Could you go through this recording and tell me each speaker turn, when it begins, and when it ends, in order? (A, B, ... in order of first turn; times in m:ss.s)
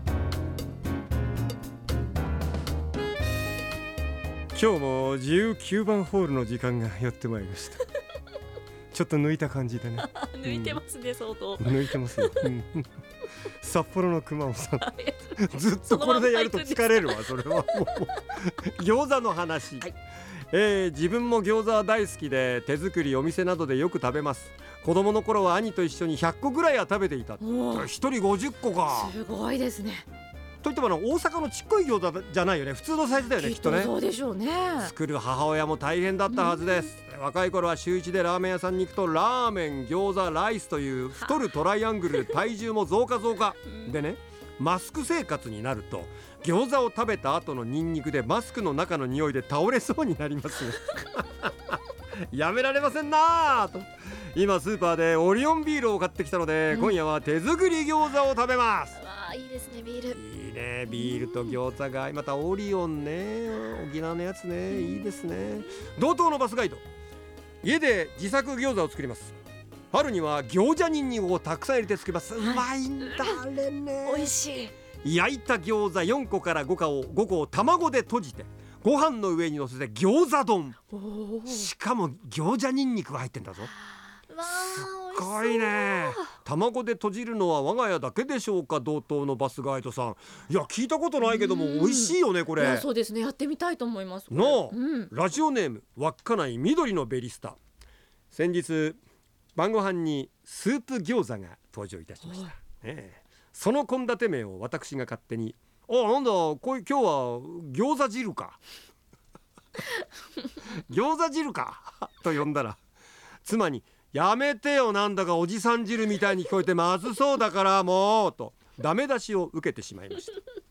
0:04.5-0:07.8 A
0:08.9-0:10.8 A
0:10.0-0:12.5 B
0:11.6-0:12.9 A
0:13.6-0:14.9 A
0:14.8-0:18.2 B
0:15.4-0:19.9 A
0:20.5-0:29.1 A
0:27.4-0:27.9 B
0:28.9-0:30.0 B
0:30.6-0:33.9 A
0:33.4-0:34.9 B
0:34.8-0:51.8 A
0:36.3-0:36.9 B
0:52.3-0:59.0 A
0:56.7-0:57.0 B
0:59.0-1:00.2 B
1:00.1-1:06.8 A
1:00.9-1:01.6 B
1:04.7-1:05.0 B
1:07.6-1:09.4 A
1:09.9-1:14.3 A
1:12.4-1:13.4 B
1:14.0-1:14.7 B
1:15.0-1:20.8 A
1:20.9-1:21.7 B
1:21.5-1:23.7 A
1:24.3-1:26.3 B
1:24.5-1:32.9 A
1:31.2-1:35.1 B
1:34.3-1:37.6 A
1:38.3-1:39.0 A
1:39.6-1:48.6 A
1:42.2-1:42.5 B
1:50.7-1:52.8 A
1:53.4-2:00.4 A